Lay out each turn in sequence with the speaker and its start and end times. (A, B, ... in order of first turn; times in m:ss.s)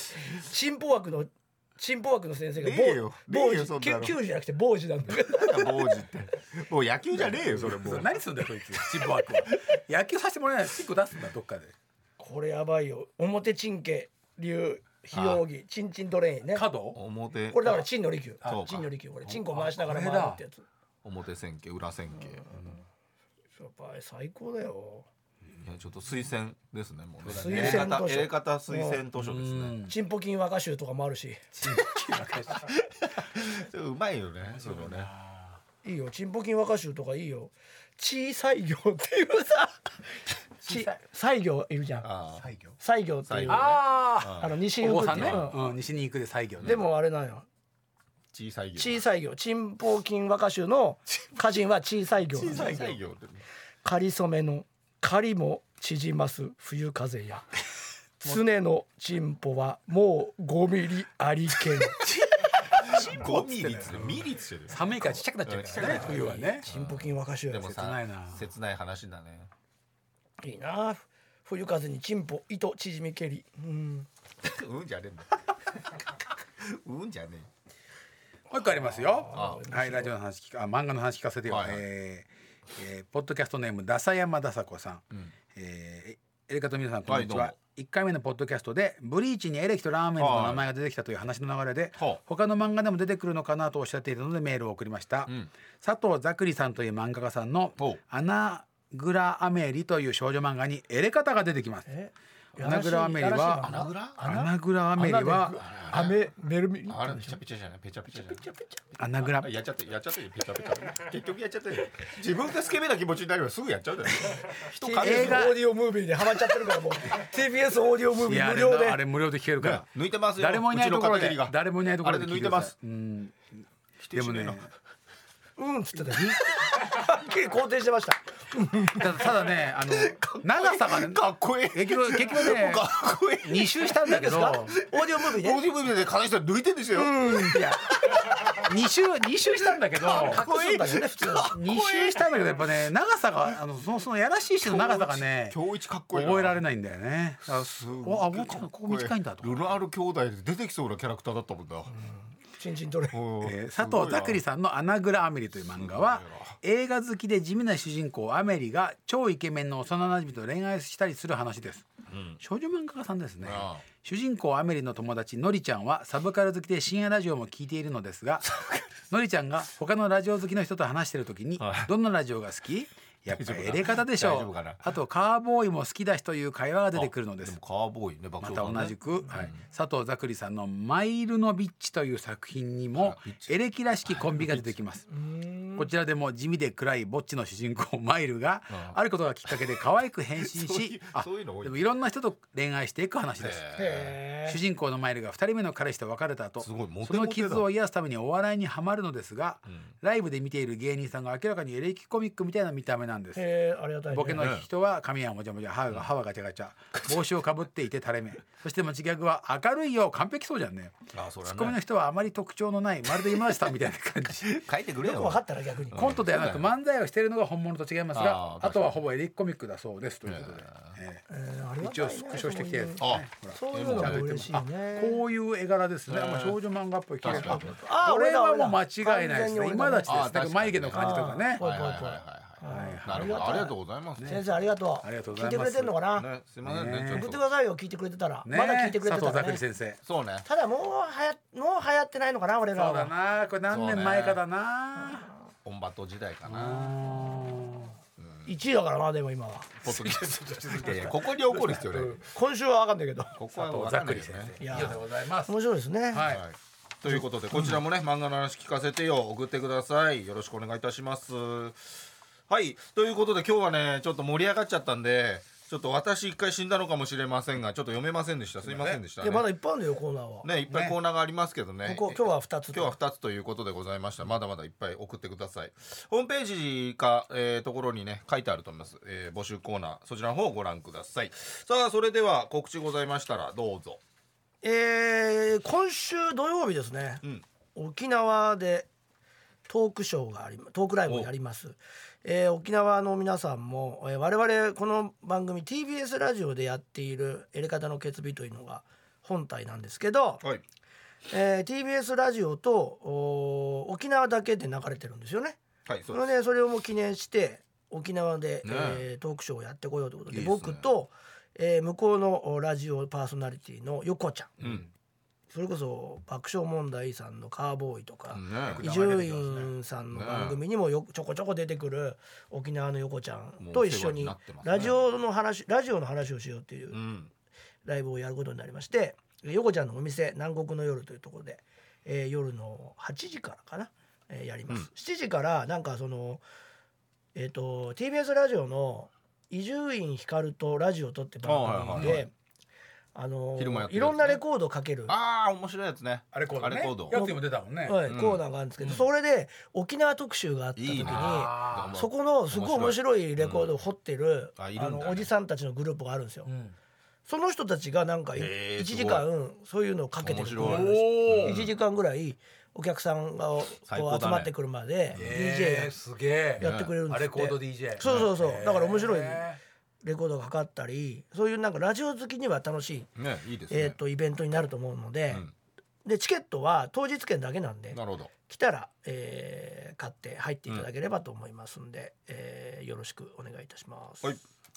0:00.3-0:06.0 A
0:02.6-0:04.2 B
0:05.1-0:08.2 B
0:07.3-0:11.7 C
0:08.9-0:09.5 B
0:12.2-0:16.7 A
0:15.1-0:15.4 B
0:16.6-0:17.0 C
0:16.9-0:17.9 B
0:17.5-0:20.6 A
0:18.4-0:18.9 B
0:18.4-0:20.4 C
0:21.0-0:22.8 B
0:22.4-0:22.8 A
0:23.6-0:25.1 A
0:25.6-0:29.8 B
0:27.2-0:28.0 C
0:27.4-0:29.0 A
0:29.2-0:30.0 C
0:29.9-0:31.4 A
0:31.6-0:31.9 B
0:31.6-0:32.7 C
0:32.5-0:35.1 B
0:34.5-0:35.6 C
0:35.8-0:42.1 A
0:40.6-0:41.0 C
0:42.0-0:42.5 B
0:42.4-0:42.8 C
0:42.8-0:43.8 A
0:43.3-0:44.6 B
0:43.5-0:46.8 C
0:44.4-0:45.6 A
0:45.1-0:45.5 B
0:46.6-0:47.5 A
0:48.3-0:49.0 B
0:48.8-0:53.0 A
0:52.3-0:53.4 B
0:53.8-0:57.5 A
0:58.2-1:02.0 A
1:02.0-1:06.7 C
1:02.7-1:09.5 B
1:05.8-1:07.7 A
1:07.6-1:08.4 C
1:10.4-1:14.1 A
1:14.4-1:17.5 B
1:18.5-1:25.0 C
1:18.6-1:20.1 A
1:19.3-1:19.6 B
1:21.5-1:21.8 B
1:25.6-1:41.9 C
1:27.1-1:27.6 B
1:30.2-1:30.7 B
1:41.9-1:47.4 A
1:42.6-1:45.6 C
1:43.6-1:44.2 B
1:45.6-1:46.2 B
1:46.9-1:48.5 B
1:48.1-1:48.8 A
1:49.0-1:49.5 C
1:49.2-1:55.5 B
1:54.7-1:59.0 A
1:54.9-1:55.6 C
1:58.2-2:04.7 C
1:59.6-2:02.7 B
2:04.0-2:04.6 B
2:05.6-2:09.1 A
2:06.0-2:06.4 C
2:08.9-2:14.8 C
2:09.8-2:14.1 B
2:14.0-2:15.7 A
2:14.8-2:18.6 B
2:16.9-2:17.6 A
2:17.5-2:20.4 C
2:20.0-2:21.6 A
2:20.0-2:22.4 B
2:21.5-2:25.6 C
2:24.6-2:26.6 B
2:26.1-2:29.7 C
2:27.6-2:31.9 B
2:31.9-2:33.2 A
2:33.1-2:34.4 B
2:33.4-2:41.9 C
2:35.8-2:36.6 B
2:42.1-2:42.4 B
2:42.4-2:57.6 C
2:43.4-2:43.8 B
2:51.6-2:51.9 B
2:53.3-2:54.8 B
2:56.9-2:59.6 B
2:58.4-3:05.0 C
3:03.0-3:03.6 B
3:04.1-3:04.8 B
3:05.1-3:05.8 A
3:05.8-3:13.6 C
3:08.7-3:09.6 B
3:10.4-3:11.8 B
3:13.4-3:14.2 B
3:13.8-3:14.6 A
3:14.5-3:23.5 C
3:16.6-3:17.7 B
3:23.4-3:24.5 A
3:24.1-3:34.6 C
3:24.4-3:24.7 B
3:31.1-3:31.8 B
3:34.4-3:36.7 B
3:35.0-3:36.1 A
3:35.9-3:41.2 C
3:38.1-3:39.0 B
3:40.2-3:41.0 B
3:41.3-3:45.2 A
3:41.8-3:51.6 C
3:43.0-3:44.3 B
3:46.1-3:46.6 B
3:47.2-3:47.8 B
3:47.3-3:50.2 A
3:50.1-3:54.5 B
3:50.9-3:56.3 A
3:52.7-3:54.4 C
3:55.0-3:56.0 C
3:56.1-3:57.4 B
3:56.6-3:57.3 C
3:57.1-3:59.6 A
3:58.4-4:00.0 C
4:00.0-4:00.5 B
4:00.4-4:03.1 A
4:02.8-4:05.3 C
4:03.7-4:04.4 B
4:05.6-4:07.0 B
4:06.5-4:07.9 C
4:08.2-4:08.5 B
4:08.5-4:09.8 A
4:09.8-4:12.2 B
4:09.9-4:12.2 C
4:12.3-4:13.4 A
4:13.4-4:15.0 B
4:13.5-4:15.6 C
4:14.6-4:16.3 A
4:16.1-4:16.4 C
4:16.2-4:29.5 B
4:17.1-4:17.8 C
4:28.6-4:29.0 C
4:29.2-4:30.5 A
4:30.4-4:44.0 B
4:30.7-4:31.0 C
4:31.8-4:33.0 A
4:44.6-4:47.2 A
4:47.8-4:48.9 A
4:49.7-5:00.4 A
5:01.3-5:14.6 A
5:05.9-5:06.3 B
5:08.6-5:09.1 B
5:10.4-5:10.8 B
5:14.6-5:14.8 C
5:14.6-5:14.9 B
5:15.5-5:27.0 A
5:18.3-5:18.8 B
5:18.6-5:19.7 C
5:20.1-5:20.6 B
5:23.6-5:25.0 B
5:26.9-5:27.3 B
5:27.8-5:36.4 A
5:37.4-5:42.3 A
5:41.4-5:42.3 B
5:41.8-5:42.3 C
5:43.2-5:45.1 A
5:43.6-5:44.4 B
5:45.1-5:47.2 B
5:46.3-5:48.1 C
5:47.1-5:56.5 A
5:48.1-5:48.4 B
5:48.8-5:49.1 C
5:50.8-5:53.8 B
5:51.0-5:52.0 C
5:54.6-5:55.3 B
5:56.5-5:56.7 C
5:57.3-6:05.9 A
5:58.3-5:59.3 B
6:00.2-6:01.7 B
6:00.6-6:01.7 C
6:03.9-6:04.5 B
6:05.2-6:09.6 C
6:06.6-6:07.0 B
6:06.6-6:09.4 A
6:10.0-6:13.1 A
6:13.2-6:14.0 B
6:13.7-6:15.4 A
6:16.0-6:24.3 A
6:17.9-6:18.3 B